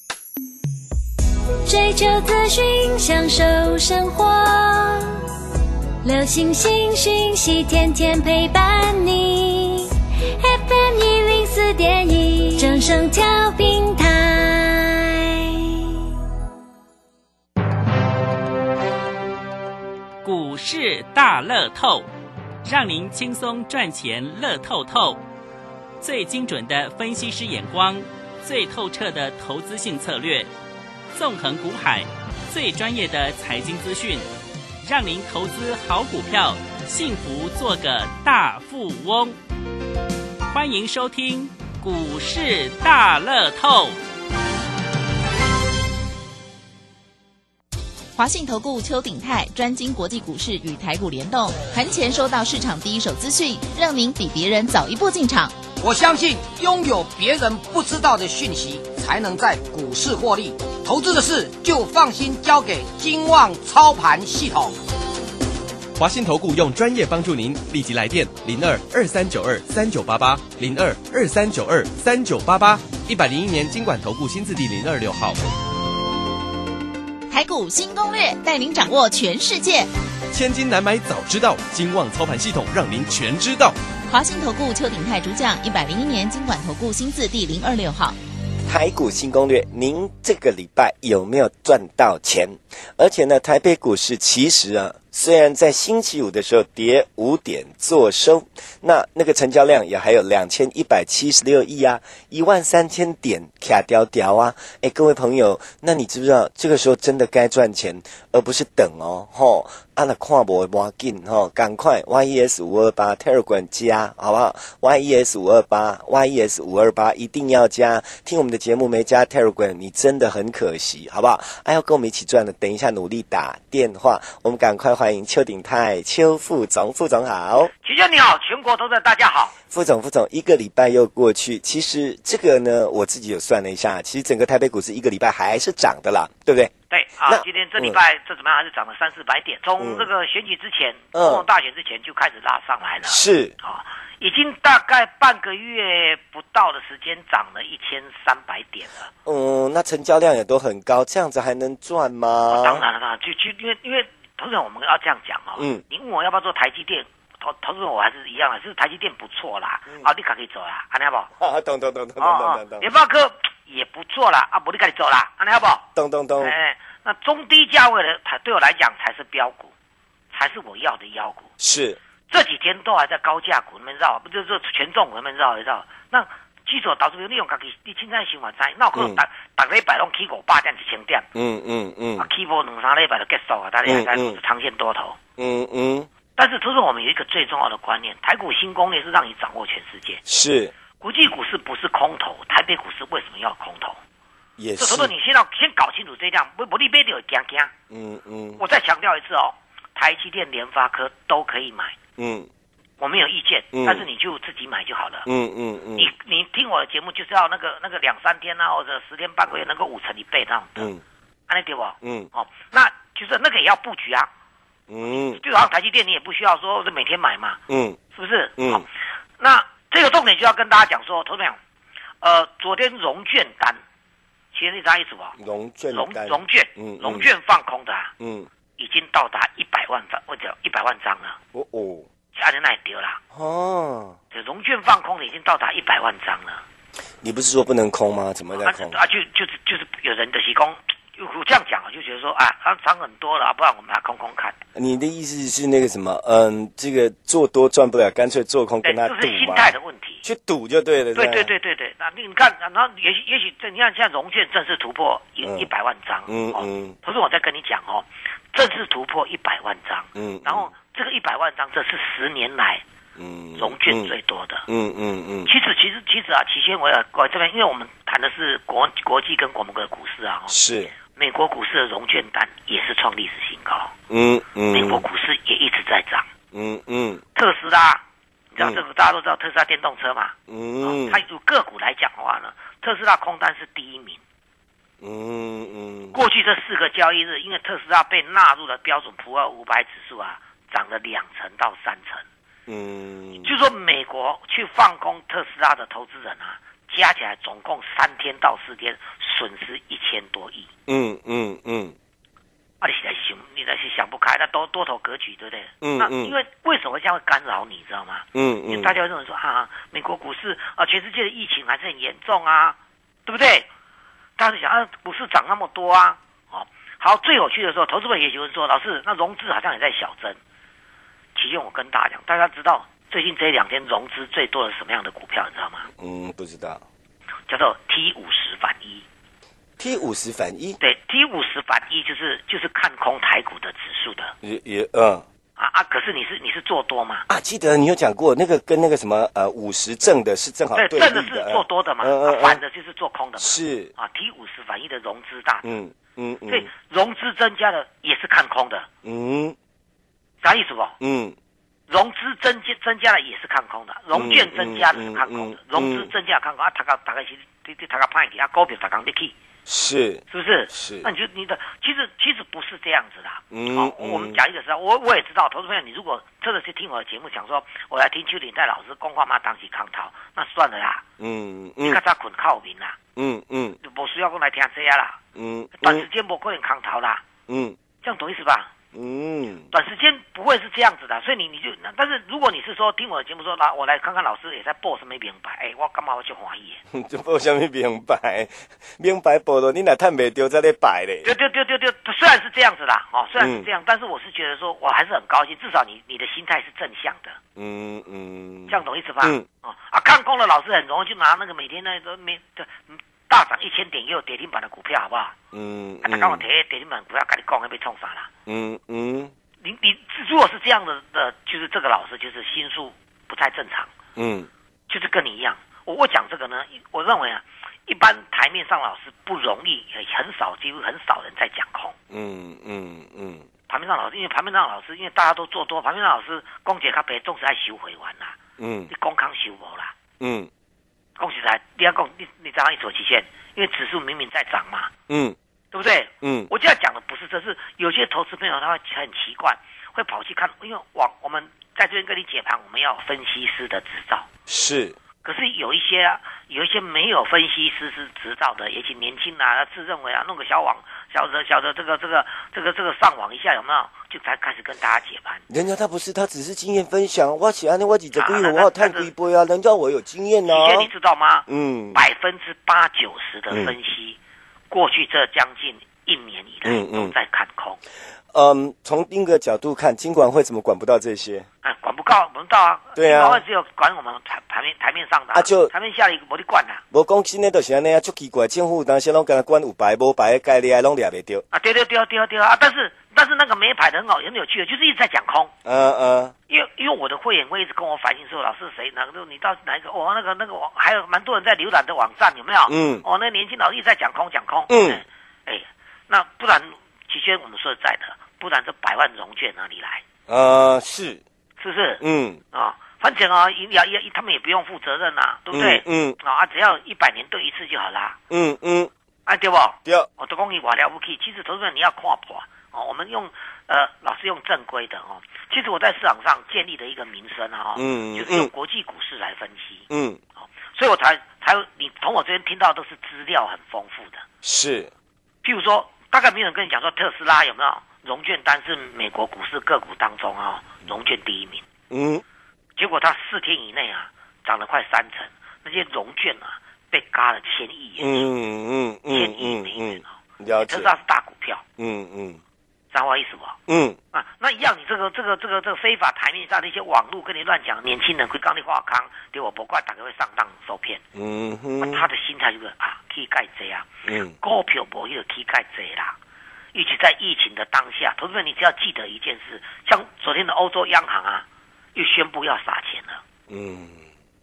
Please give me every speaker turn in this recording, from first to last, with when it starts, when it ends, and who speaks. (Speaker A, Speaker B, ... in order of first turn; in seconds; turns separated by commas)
Speaker A: 1.7-5.2, Speaker A: 6.0-15.9, Speaker B: 20.2-22.1, Speaker B: 22.6-25.2, Speaker B: 26.0-30.5, Speaker B: 31.1-34.3, Speaker B: 34.8-39.4, Speaker B: 40.5-44.0, Speaker C: 48.2-55.6, Speaker D: 55.8-64.8, Speaker E: 66.0-75.4, Speaker C: 77.3-79.9, Speaker E: 80.3-83.8, Speaker C: 84.1-88.2, Speaker F: 88.7-127.7, Speaker G: 127.8-129.6, Speaker F: 129.7-136.7, Speaker G: 136.9-149.1, Speaker F: 137.3-138.0, Speaker F: 139.8-140.1, Speaker F: 141.1-141.5, Speaker F: 143.1-143.5, Speaker F: 149.3-152.8, Speaker G: 152.5-161.3, Speaker F: 155.6-155.8, Speaker F: 161.4-162.9, Speaker G: 162.2-165.9, Speaker F: 165.9-166.6, Speaker G: 166.4-169.7, Speaker G: 170.3-171.5, Speaker F: 171.6-172.0, Speaker G: 172.3-181.3, Speaker F: 178.9-179.2, Speaker F: 181.3-182.3, Speaker G: 182.2-185.2, Speaker F: 183.9-184.4, Speaker F: 185.4-186.1, Speaker G: 186.4-190.2, Speaker F: 190.3-190.7, Speaker G: 191.0-194.0, Speaker F: 194.6-195.1, Speaker G: 194.8-197.7, Speaker F: 197.9-198.6, Speaker G: 198.6-201.9, Speaker F: 202.2-202.5, Speaker G: 203.0-205.3, Speaker F: 203.7-204.1, Speaker F: 205.3-206.1, Speaker G: 206.0-210.9, Speaker F: 210.8-211.0, Speaker G: 211.5-214.3, Speaker F: 212.0-212.3, Speaker F: 214.9-215.4, Speaker G: 215.1-217.6, Speaker F: 217.7-218.0, Speaker G: 218.1-218.9, Speaker F: 218.6-218.8, Speaker G: 219.4-221.6, Speaker G: 222.2-223.8, Speaker G: 224.5-225.4, Speaker F: 225.4-227.3, Speaker G: 225.9-228.1, Speaker F: 228.2-228.5, Speaker G: 228.8-231.4, Speaker F: 231.5-232.1, Speaker G: 232.3-233.2, Speaker F: 233.3-234.2, Speaker G: 234.3-236.6, Speaker F: 237.2-239.0, Speaker G: 238.6-244.6, Speaker F: 244.8-251.5, Speaker G: 248.8-250.2, Speaker G: 251.2-262.8, Speaker F: 255.4-255.7, Speaker F: 256.3-257.0, Speaker F: 260.1-260.7, Speaker F: 263.2-264.1, Speaker G: 263.6-264.7, Speaker F: 264.7-265.5, Speaker G: 265.5-273.9, Speaker F: 270.5-270.9, Speaker F: 274.1-275.1, Speaker G: 274.7-276.3, Speaker F: 276.5-277.2, Speaker G: 277.4-284.2, Speaker F: 280.5-281.2, Speaker F: 285.0-286.2, Speaker G: 286.1-292.2, Speaker F: 292.7-293.5, Speaker G: 293.4-300.7, Speaker F: 300.9-302.0, Speaker G: 302.8-313.7, Speaker F: 305.8-306.4, Speaker F: 308.4-308.9, Speaker G: 314.4-320.4, Speaker G: 321.4-325.9, Speaker F: 326.0-326.8, Speaker G: 327.5-329.1, Speaker F: 329.8-330.8, Speaker G: 330.8-334.3, Speaker F: 334.4-335.2, Speaker G: 335.6-337.2, Speaker F: 337.3-342.6, Speaker G: 340.8-345.7, Speaker F: 343.4-343.9, Speaker F: 345.6-346.7, Speaker G: 346.5-348.9, Speaker F: 349.0-349.6, Speaker G: 350.4-351.0, Speaker F: 351.0-351.4, Speaker G: 351.9-359.4, Speaker F: 354.1-356.1, Speaker F: 359.7-361.1, Speaker G: 360.3-371.0, Speaker F: 363.5-364.4, Speaker F: 371.2-372.0, Speaker G: 371.8-373.0, Speaker F: 373.2-373.8, Speaker G: 373.8-375.2, Speaker F: 375.4-376.1, Speaker G: 375.8-377.2, Speaker F: 377.5-377.8, Speaker G: 378.0-378.7, Speaker F: 378.9-379.7, Speaker G: 379.7-386.8, Speaker F: 386.9-391.3, Speaker G: 391.2-397.4, Speaker F: 393.4-393.7, Speaker F: 397.6-399.5, Speaker G: 398.7-405.4, Speaker F: 405.5-406.4, Speaker G: 406.0-408.3, Speaker F: 408.5-409.3, Speaker G: 409.6-413.9, Speaker F: 414.2-414.5, Speaker G: 414.9-421.9, Speaker F: 422.1-423.5, Speaker G: 423.7-428.4, Speaker F: 428.6-428.9, Speaker G: 428.9-429.9, Speaker F: 430.2-430.5, Speaker G: 431.2-434.9, Speaker F: 435.1-435.4, Speaker G: 435.7-444.3, Speaker F: 436.2-436.5, Speaker F: 444.5-445.0, Speaker G: 445.2-455.4, Speaker F: 455.5-460.9, Speaker G: 458.1-459.1, Speaker G: 460.4-464.2, Speaker F: 461.5-462.0, Speaker G: 464.7-467.8, Speaker F: 466.6-467.1, Speaker F: 468.3-471.5, Speaker G: 471.6-476.8, Speaker F: 473.0-473.4, Speaker F: 475.3-475.7, Speaker F: 476.9-481.4, Speaker G: 481.5-485.5, Speaker F: 485.6-486.4, Speaker G: 486.5-500.0, Speaker F: 492.7-493.1, Speaker F: 494.7-495.0, Speaker F: 500.3-501.2, Speaker G: 501.6-508.2, Speaker F: 502.0-502.4, Speaker F: 505.5-506.2, Speaker F: 508.3-508.9, Speaker G: 509.3-519.9, Speaker F: 517.8-518.5, Speaker F: 519.9-520.2, Speaker G: 520.4-524.2, Speaker F: 524.4-524.9, Speaker G: 525.4-531.6, Speaker F: 531.9-532.2, Speaker G: 532.8-538.3, Speaker F: 538.0-540.9, Speaker G: 539.1-541.6, Speaker F: 541.8-542.4, Speaker G: 542.9-543.6, Speaker F: 543.7-544.0, Speaker G: 544.1-551.0, Speaker F: 551.1-552.1, Speaker G: 551.8-553.9, Speaker F: 554.1-554.4, Speaker G: 554.4-556.2, Speaker G: 556.7-563.2, Speaker F: 563.5-564.1